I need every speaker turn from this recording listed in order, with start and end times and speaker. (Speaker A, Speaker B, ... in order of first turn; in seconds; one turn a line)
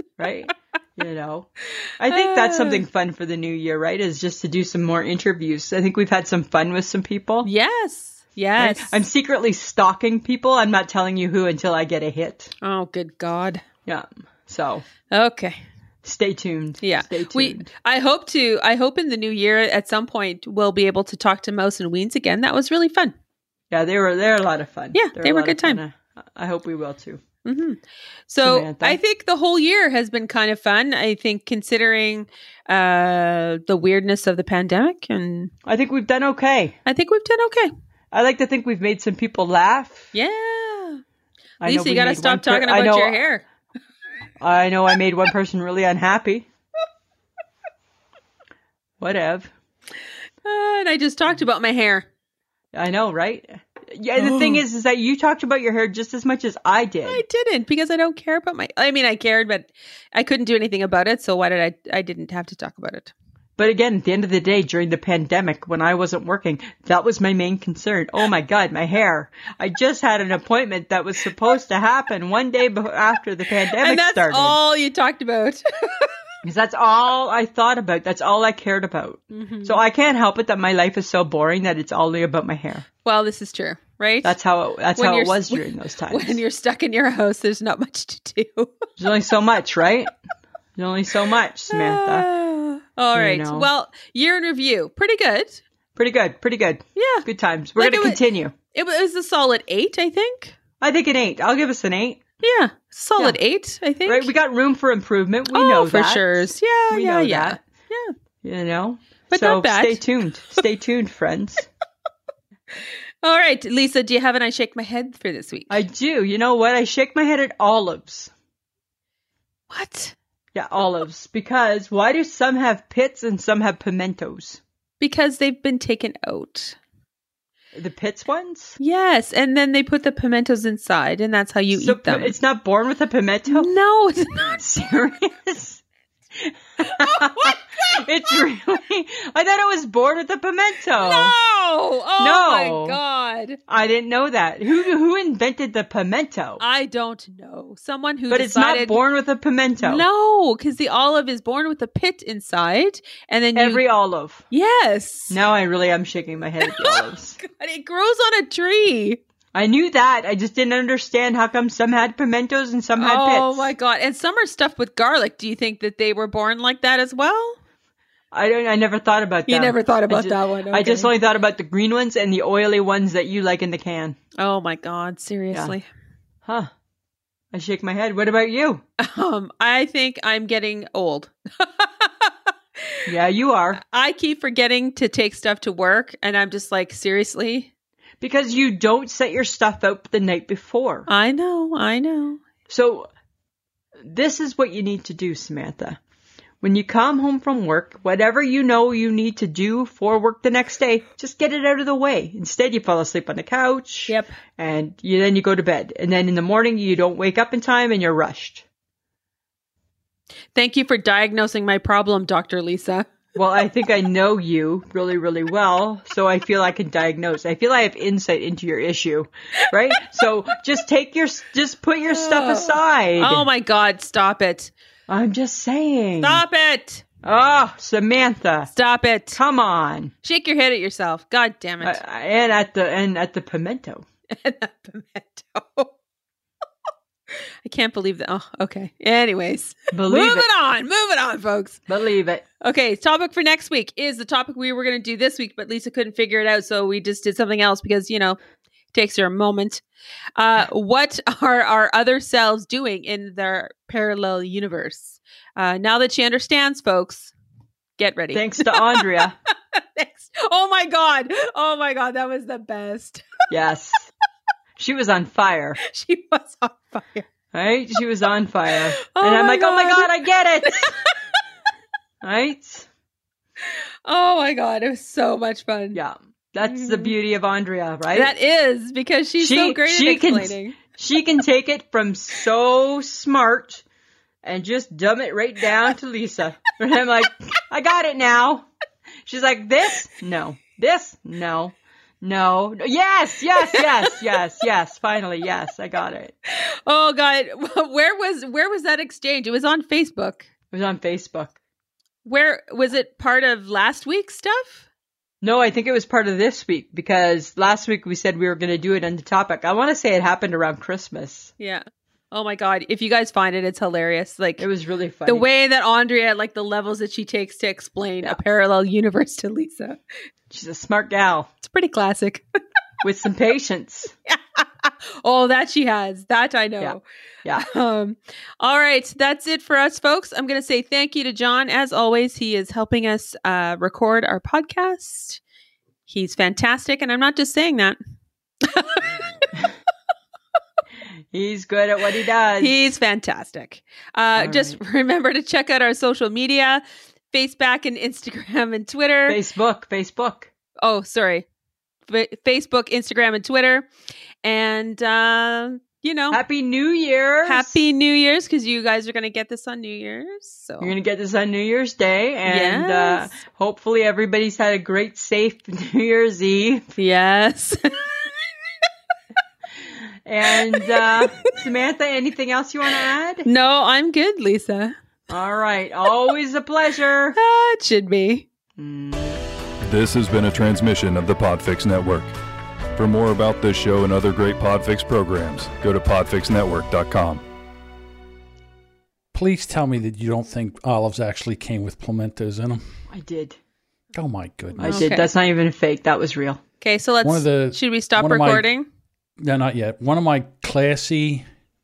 Speaker A: 0.2-7.5
Speaker B: 2.1-2.8
Speaker B: 7.4-9.0
Speaker A: 8.6-12.5
Speaker B: 12.6-13.6
Speaker A: 13.9-14.8
Speaker B: 15.1-15.6
Speaker A: 16.0-17.7
Speaker B: 16.8-23.1
Speaker A: 23.7-27.2
Speaker B: 24.9-25.8
Speaker B: 27.4-35.5
Speaker A: 28.4-29.0
Speaker A: 35.6-36.8
Speaker B: 36.9-37.7
Speaker A: 38.1-40.1
Speaker B: 40.1-41.0
Speaker A: 41.6-43.2
Speaker B: 41.6-43.5
Speaker A: 44.4-46.5
Speaker A: 49.0-49.5
Speaker B: 50.4-52.1
Speaker A: 52.7-57.2
Speaker B: 54.2-54.6
Speaker B: 57.1-63.1
Speaker A: 63.6-74.6
Speaker B: 73.8-76.1
Speaker A: 76.4-82.9
Speaker B: 79.3-79.8
Speaker B: 83.0-84.4
Speaker A: 84.2-86.4
Speaker B: 85.0-88.8
Speaker A: 89.0-90.1
Speaker A: 90.8-92.3
Speaker B: 91.7-95.6
Speaker A: 93.1-93.7
Speaker A: 96.0-98.5
Speaker B: 97.0-98.2
Speaker B: 98.7-100.6
Speaker A: 100.8-102.2
Speaker B: 102.4-104.3
Speaker A: 104.1-107.6
Speaker B: 105.5-108.1
Speaker A: 108.4-111.7
Speaker B: 109.3-110.0
Speaker B: 113.2-115.8
Speaker A: 115.7-118.3
Speaker B: 119.7-120.2
Speaker A: 120.5-124.6
Speaker B: 125.0-126.8
Speaker A: 127.7-128.8
Speaker B: 128.8-132.3
Speaker A: 131.7-133.7
Speaker B: 133.5-134.6
Speaker A: 134.3-135.8
Speaker A: 136.3-141.4
Speaker B: 136.8-138.0
Speaker B: 141.0-143.6
Speaker A: 142.2-143.0
Speaker A: 143.7-146.6
Speaker B: 146.6-149.0
Speaker A: 148.3-150.1
Speaker B: 149.8-153.8
Speaker A: 153.6-154.4
Speaker B: 154.5-155.4
Speaker A: 155.3-157.4
Speaker B: 156.6-159.2
Speaker A: 159.5-163.7
Speaker B: 163.0-167.6
Speaker A: 168.3-174.2
Speaker B: 169.5-171.1
Speaker B: 174.4-175.9
Speaker A: 176.4-176.7
Speaker A: 177.5-178.8
Speaker B: 179.0-183.1
Speaker A: 183.1-183.8
Speaker B: 183.8-187.7
Speaker A: 188.2-191.1
Speaker B: 191.1-192.4
Speaker A: 192.7-193.1
Speaker A: 194.0-196.0
Speaker A: 196.6-208.7
Speaker B: 204.1-204.4
Speaker B: 210.6-213.1
Speaker A: 213.3-223.5
Speaker B: 222.1-224.7
Speaker A: 225.1-226.4
Speaker B: 226.2-227.1
Speaker A: 227.2-228.7
Speaker B: 228.7-229.4
Speaker A: 229.3-230.1
Speaker B: 230.2-232.0
Speaker A: 231.8-234.1
Speaker B: 234.3-235.9
Speaker B: 237.7-241.8
Speaker A: 239.9-240.5
Speaker A: 241.9-242.4
Speaker B: 242.6-248.4
Speaker B: 248.9-249.8
Speaker B: 250.4-257.3
Speaker B: 258.0-259.2
Speaker A: 258.3-259.4
Speaker B: 259.7-263.5
Speaker A: 263.5-264.1
Speaker A: 264.8-265.8
Speaker B: 265.8-267.3
Speaker A: 267.5-270.9
Speaker B: 269.0-270.1
Speaker B: 270.7-271.1
Speaker A: 272.2-272.9
Speaker B: 274.1-276.0
Speaker A: 275.9-278.3
Speaker B: 276.7-277.1
Speaker B: 278.1-280.8
Speaker A: 279.4-283.8
Speaker A: 284.4-288.7
Speaker A: 289.3-296.4
Speaker B: 293.6-294.1
Speaker B: 296.6-300.5
Speaker A: 300.7-301.6
Speaker B: 302.2-304.9
Speaker A: 305.4-311.5
Speaker B: 311.6-314.7
Speaker A: 314.6-315.5
Speaker B: 315.3-320.0
Speaker A: 320.5-321.5
Speaker B: 321.6-322.4
Speaker A: 323.0-324.1
Speaker B: 324.3-327.0
Speaker A: 326.8-327.7
Speaker B: 327.6-335.4
Speaker B: 336.1-338.0
Speaker B: 338.6-339.4
Speaker A: 341.3-342.9
Speaker B: 342.6-349.4
Speaker A: 344.4-344.8
Speaker A: 349.3-350.5
Speaker B: 350.8-351.4
Speaker B: 352.1-353.9
Speaker B: 354.4-356.4
Speaker A: 356.3-357.9
Speaker B: 357.4-360.9
Speaker A: 360.8-366.9
Speaker B: 362.5-363.3
Speaker B: 367.0-368.3
Speaker A: 370.3-373.5
Speaker B: 370.6-371.5
Speaker B: 373.4-374.9
Speaker A: 375.3-377.4
Speaker B: 377.4-378.5
Speaker A: 378.8-379.4
Speaker C: 379.9-382.3
Speaker C: 383.0-387.4
Speaker D: 389.3-392.8
Speaker A: 393.1-393.6
Speaker D: 394.1-395.1
Speaker B: 394.8-395.3
Speaker A: 394.8-396.6
Speaker B: 396.8-398.9
Speaker D: 397.2-398.7
Speaker D: 399.4-401.4